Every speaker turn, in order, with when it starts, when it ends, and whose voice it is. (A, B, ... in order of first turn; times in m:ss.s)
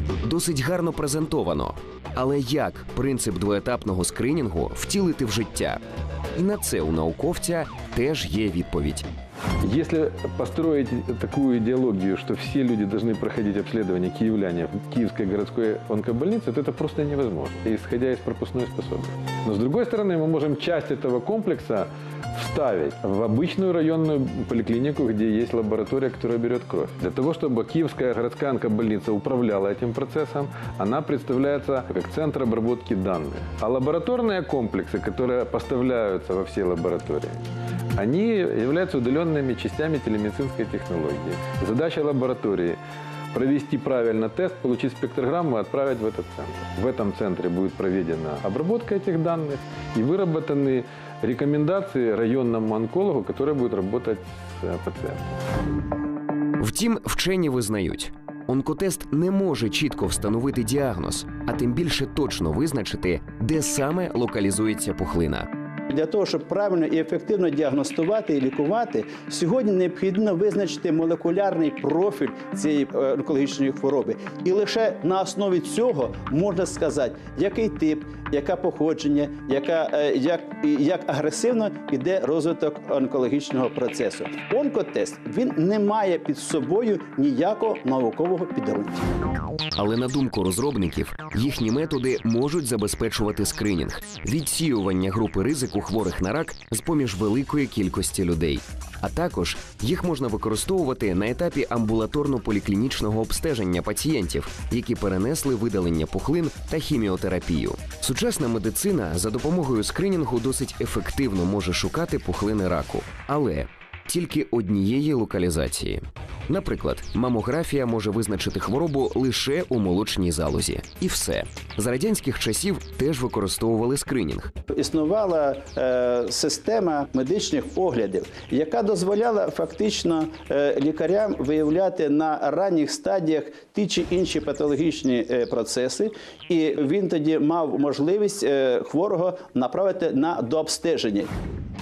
0:00.2-0:05.8 A
0:06.4-0:09.1 A
0:09.6-0:37.4 B
0:37.9-0:42.8 B
0:43.3-0:55.4 B
0:56.6-1:05.5 A
1:05.9-1:29.2 C
1:29.8-2:04.5 A
2:04.7-2:21.3 C